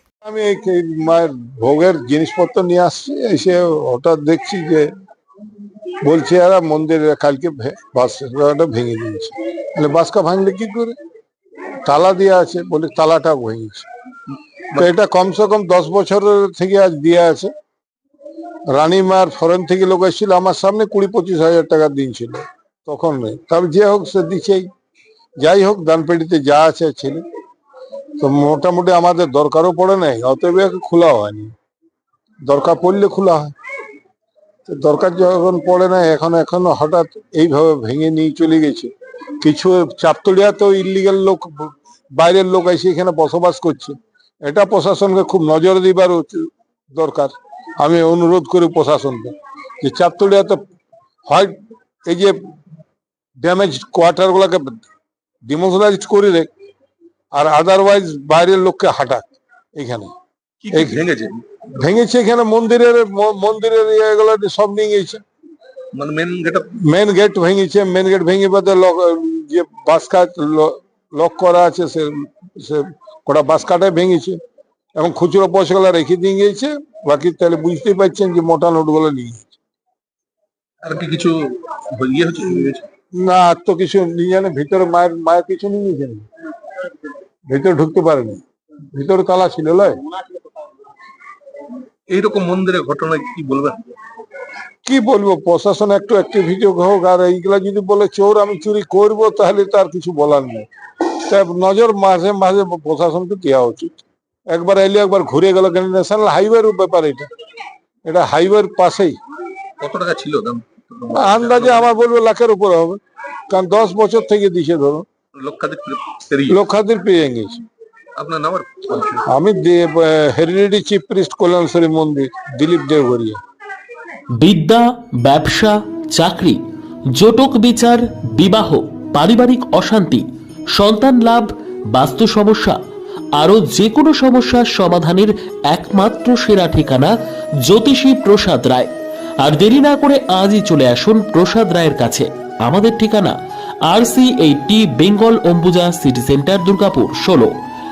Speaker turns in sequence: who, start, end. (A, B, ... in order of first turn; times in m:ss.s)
0:00.2-0:04.9 A
0:06.0-0:10.9 A
0:11.8-0:13.9 A
0:14.7-0:17.5 A
0:18.7-0:24.6 A
0:25.4-0:27.2 A
0:28.2-0:31.5 A
0:32.5-0:33.5 A
0:34.6-0:38.9 A
0:39.4-0:50.6 A
0:51.3-0:51.6 A
0:52.1-0:52.4 A
0:53.4-0:54.8 A
0:55.4-0:56.5 A
0:57.3-1:00.1 A
1:00.6-1:01.6 B
1:00.7-1:01.0 A
1:01.7-1:05.2 A
1:05.9-1:06.7 B
1:06.8-1:14.4 A
1:15.0-1:19.5 A
1:20.8-1:22.9 B
1:23.1-1:26.3 A
1:27.5-1:28.4 A
1:28.9-1:30.0 A
1:32.1-1:33.9 B
1:34.8-1:40.7 A
1:41.2-1:47.3 A
1:48.0-1:49.2 A
1:49.8-1:51.9 B
1:51.1-1:55.0 A
1:55.4-1:56.6 B
1:56.5-1:57.6 A
1:58.2-1:59.2 B
1:59.2-2:03.4 A
2:04.3-2:12.8 C
2:13.4-2:27.5 C